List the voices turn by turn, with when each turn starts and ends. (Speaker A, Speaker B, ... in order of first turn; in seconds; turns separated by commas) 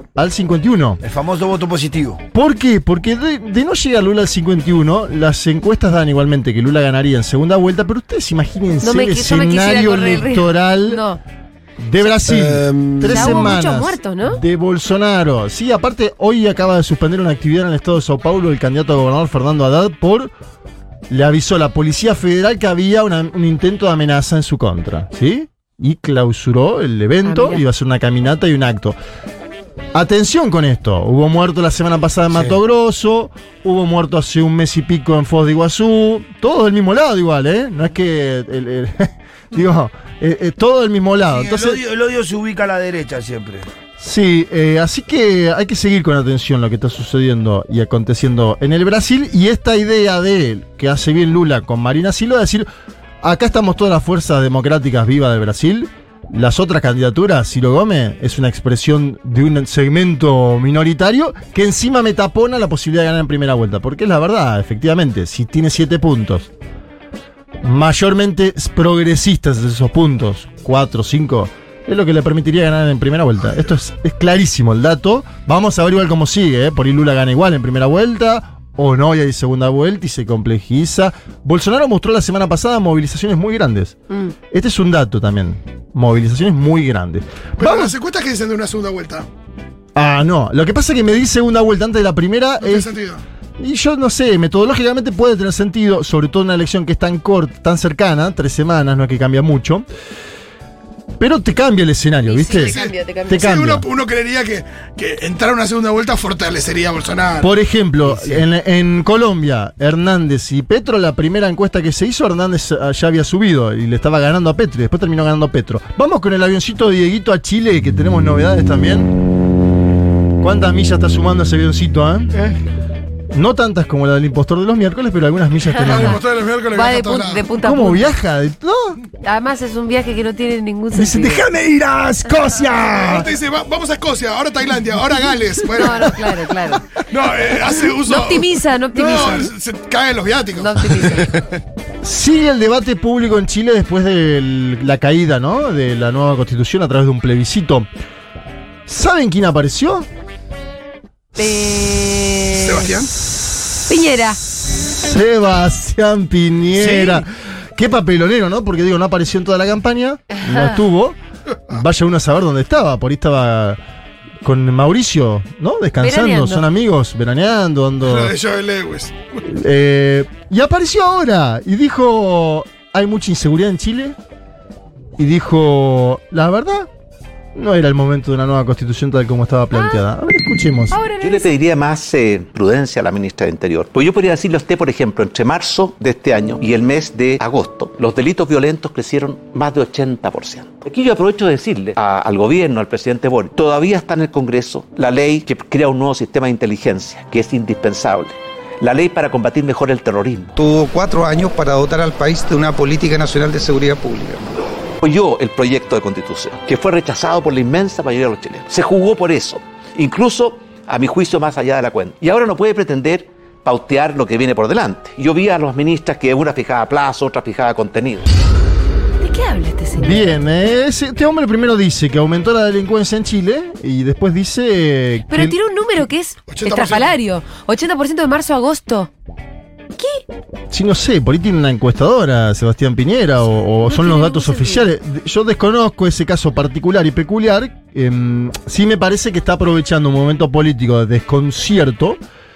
Speaker A: 0.1-1.0, Speaker B: 1.0-2.2, Speaker A: 2.3-11.0, Speaker C: 8.8-11.2, Speaker A: 11.8-20.3, Speaker B: 12.2-13.5, Speaker C: 13.1-14.4, Speaker A: 21.1-29.0, Speaker C: 27.2-27.6, Speaker A: 29.9-41.8, Speaker B: 41.3-43.7, Speaker A: 44.0-52.7, Speaker A: 53.2-66.5, Speaker A: 67.6-84.0, Speaker A: 84.5-87.9, Speaker D: 87.6-89.3, Speaker A: 90.0-93.0, Speaker D: 92.6-93.2, Speaker A: 93.6-99.9, Speaker A: 101.2-102.8, Speaker C: 102.2-103.6, Speaker D: 102.6-107.5, Speaker A: 103.3-103.9, Speaker A: 107.4-119.1, Speaker A: 120.4-122.5, Speaker A: 123.3-126.2, Speaker C: 125.8-128.1, Speaker D: 125.8-127.5, Speaker A: 127.6-129.0, Speaker C: 129.2-131.4, Speaker A: 130.9-133.3, Speaker D: 132.8-136.3, Speaker C: 135.7-136.8, Speaker D: 137.0-141.1, Speaker C: 137.9-139.5, Speaker C: 140.6-141.4, Speaker A: 142.0-147.9, Speaker A: 148.9-150.1, Speaker C: 151.4-152.9, Speaker D: 152.5-153.1, Speaker A: 153.1-163.8, Speaker C: 153.9-154.4, Speaker D: 156.8-157.2, Speaker C: 160.4-160.8, Speaker A: 164.4-168.3, Speaker C: 166.0-166.6, Speaker D: 168.0-169.4, Speaker A: 169.4-174.2, Speaker A: 175.2-176.9, Speaker A: 177.6-181.0, Speaker C: 179.7-180.0, Speaker C: 180.9-181.5, Speaker E: 181.2-200.5, Speaker F: 200.6-204.5, Speaker E: 205.0-218.3, Speaker C: 219.2-220.2, Speaker A: 220.0-225.6, Speaker C: 225.3-229.1, Speaker D: 226.5-227.1, Speaker C: 230.0-230.2, Speaker A: 230.7-242.2, Speaker C: 233.8-234.9